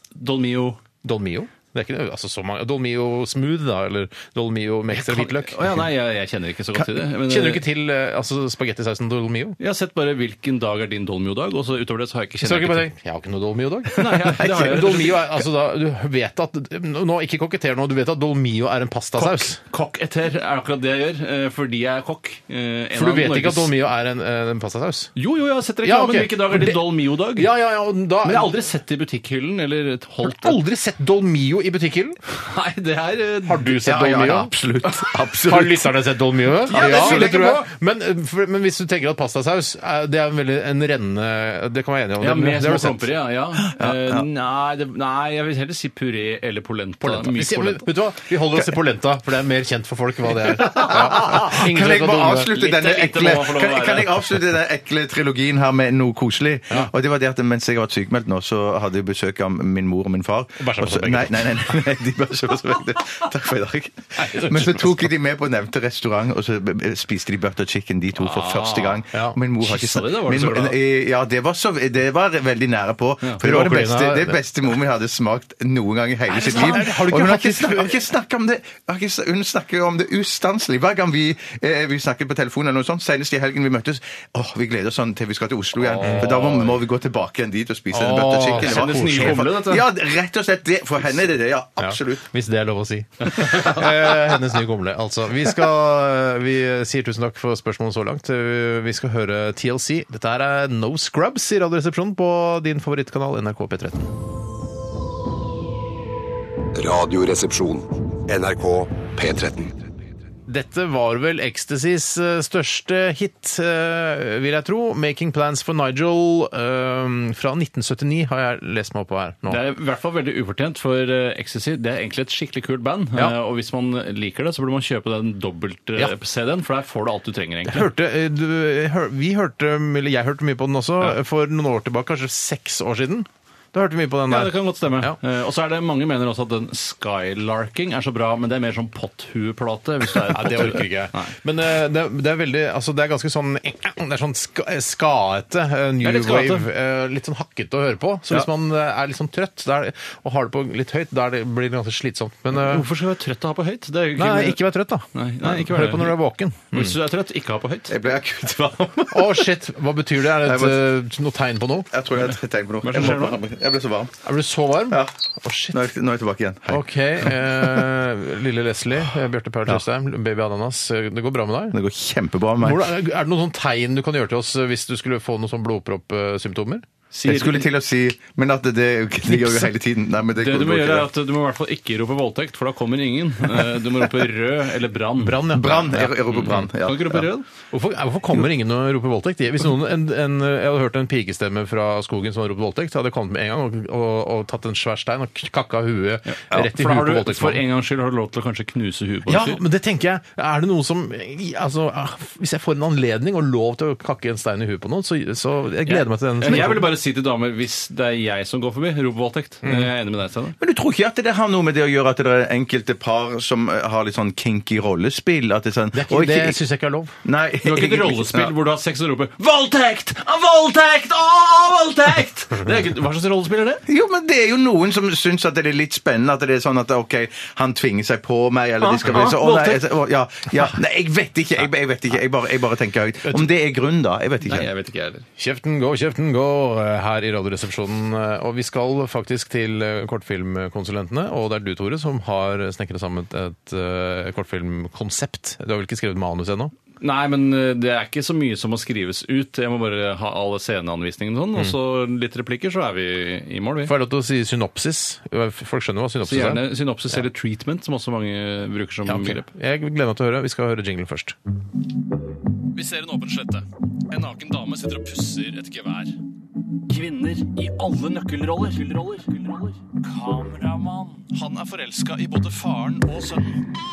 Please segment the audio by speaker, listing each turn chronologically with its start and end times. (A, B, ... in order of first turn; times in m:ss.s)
0:00.2-0:00.8 A
0:01.0-0:05.7 B
0:04.9-0:07.6 A
0:07.2-0:09.6 B
0:09.6-0:12.8 A
0:12.4-0:19.6 B
0:14.0-0:15.3 A
0:14.2-0:14.9 C
0:19.2-0:23.7 A
0:22.9-0:25.1 B
0:25.2-0:27.5 A
0:25.8-0:28.5 B
0:28.2-0:30.6 A
0:30.2-0:32.2 B
0:32.3-0:33.8 A
0:33.4-0:34.5 B
0:33.8-0:36.0 C
0:35.4-0:43.1 B
0:36.7-0:37.7 A
0:36.7-0:37.5 C
0:42.2-0:47.9 A
0:43.7-0:44.2 C
0:47.0-0:52.5 B
0:50.6-1:32.2 C
0:52.5-0:54.2 A
1:00.6-1:01.8 B
1:04.2-1:05.1 B
1:08.2-1:09.0 A
1:09.6-1:10.8 A
1:13.4-1:14.4 B
1:16.3-1:16.9 A
1:16.3-1:18.0 B
1:25.8-1:26.8 A
1:26.0-1:26.3 B
1:27.9-1:29.5 B
1:28.5-1:29.9 A
1:31.8-1:44.1 B
1:46.7-1:49.8 D
1:50.5-1:59.6 B
1:59.5-2:07.9 A
2:07.7-2:15.2 B
2:14.3-2:21.3 A
2:20.3-2:32.8 B
2:26.0-2:26.7 A
2:32.5-2:34.6 A
2:34.2-2:37.0 B
2:35.1-2:36.2 A
2:36.7-2:38.0 A
2:37.9-2:39.5 C
2:39.1-2:41.9 B
2:40.4-2:40.9 C
2:41.9-2:44.1 C
2:42.8-2:43.4 A
2:44.2-2:45.8 B
2:45.7-2:47.5 C
2:46.7-2:51.8 B
2:51.7-2:52.8 C
2:52.6-2:56.8 B
2:57.1-2:57.7 A
2:57.2-3:01.1 C
2:59.3-2:59.7 B
3:00.4-3:05.5 A
3:05.2-3:06.7 B
3:05.5-3:07.3 C
3:06.3-3:07.4 A
3:07.7-3:17.6 B
3:16.3-3:19.6 A
3:19.3-3:26.9 B
3:25.8-3:30.6 A
3:30.6-3:36.6 C
3:35.9-3:37.2 B
3:37.2-3:38.5 C
3:37.6-3:43.8 A
3:43.9-3:54.7 C
3:48.8-3:49.9 A
3:54.4-3:55.2 A
3:55.4-4:06.7 B
4:07.0-4:13.9 A
4:13.8-4:16.6 B
4:16.2-4:19.5 A
4:19.0-4:21.4 B
4:22.7-4:26.2 A
4:26.9-4:33.6 A